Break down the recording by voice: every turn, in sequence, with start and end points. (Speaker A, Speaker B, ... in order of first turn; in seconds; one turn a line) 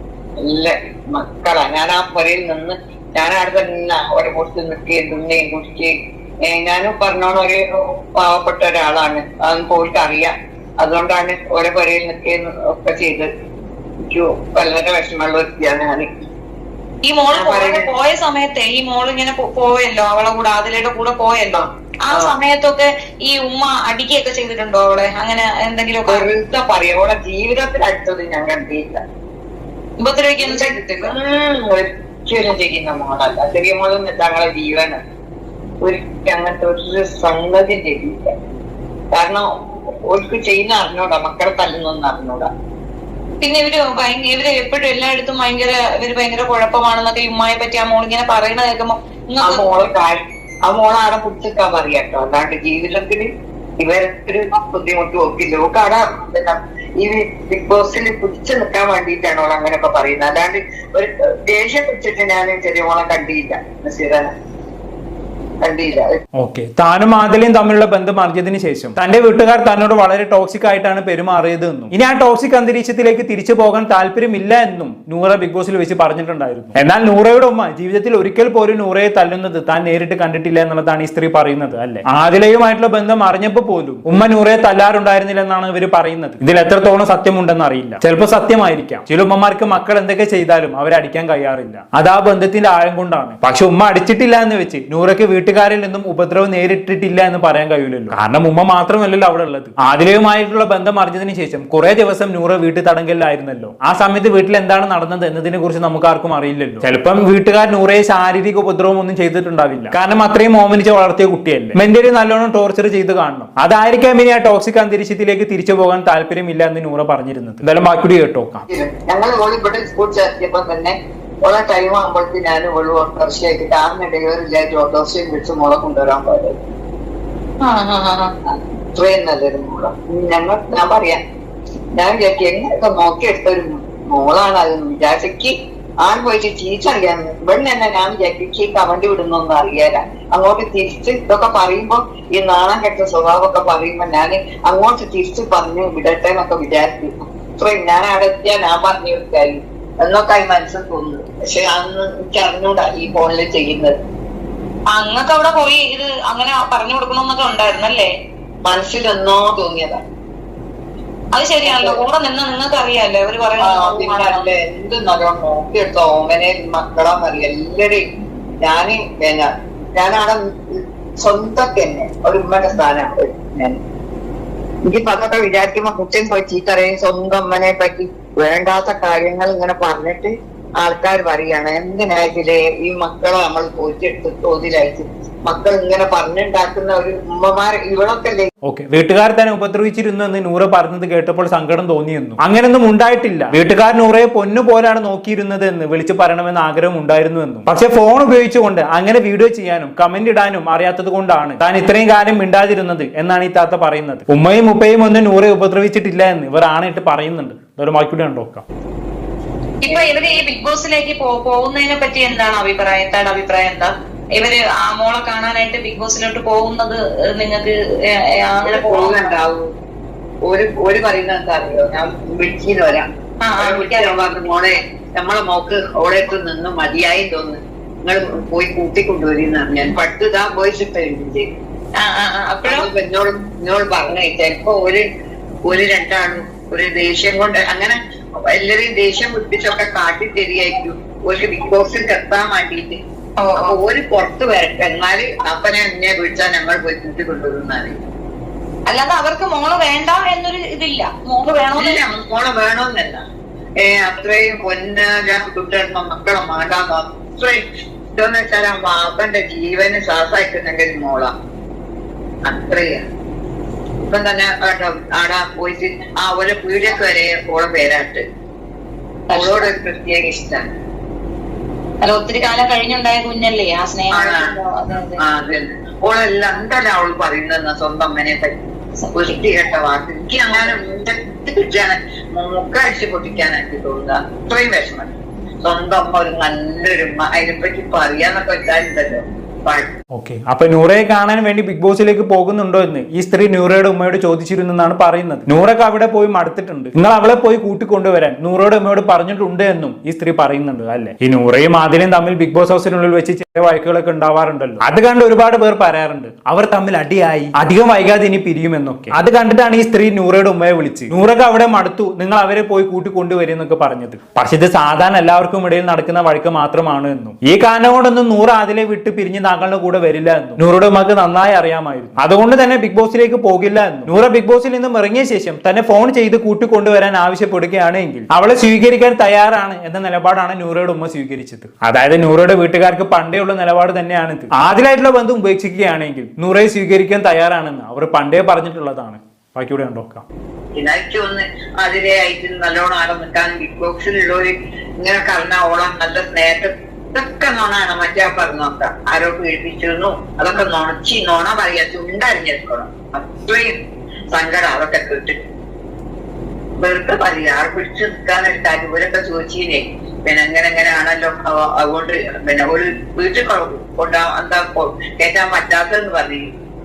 Speaker A: 0.4-13.3
Speaker A: 14.0-16.1
Speaker B: 17.0-26.3
Speaker A: 17.3-17.9
Speaker A: 21.6-22.4
Speaker A: 26.1-29.0
Speaker B: 30.0-31.1
Speaker A: 30.4-35.0
Speaker A: 35.8-38.3
Speaker A: 39.1-39.5
Speaker A: 40.1-42.5
Speaker B: 43.4-49.6
Speaker A: 49.4-53.3
Speaker A: 53.8-64.3
Speaker A: 65.6-66.2
Speaker C: 66.4-118.7
Speaker A: 118.7-126.6
Speaker B: 127.6-128.3
Speaker A: 128.5-131.2
Speaker A: 132.0-154.0
Speaker B: 154.9-158.1
Speaker A: 158.6-160.0
Speaker B: 161.3-164.4
Speaker A: 161.6-162.0
Speaker A: 163.6-168.0
Speaker A: 168.6-173.8
Speaker A: 174.9-188.5
Speaker C: 188.7-208.6
Speaker B: 209.8-219.2
Speaker A: 209.9-210.4
Speaker A: 218.6-219.7
Speaker A: 220.5-223.1
Speaker B: 223.4-224.1
Speaker A: 223.6-231.5
Speaker B: 232.0-232.9
Speaker A: 232.7-235.1
Speaker A: 235.7-238.0
Speaker A: 238.5-243.0
Speaker B: 243.4-243.8
Speaker A: 243.6-248.0
Speaker B: 248.9-252.0
Speaker A: 251.7-253.2
Speaker A: 253.8-261.3
Speaker A: 262.4-263.0
Speaker A: 264.0-268.2
Speaker B: 269.3-269.7
Speaker A: 269.3-270.6
Speaker B: 272.0-275.2
Speaker A: 274.1-274.6
Speaker A: 275.2-278.6
Speaker B: 279.1-279.3
Speaker A: 279.1-289.9
Speaker C: 290.1-340.2
Speaker A: 340.8-353.7
Speaker A: 354.3-355.4
Speaker A: 356.8-366.5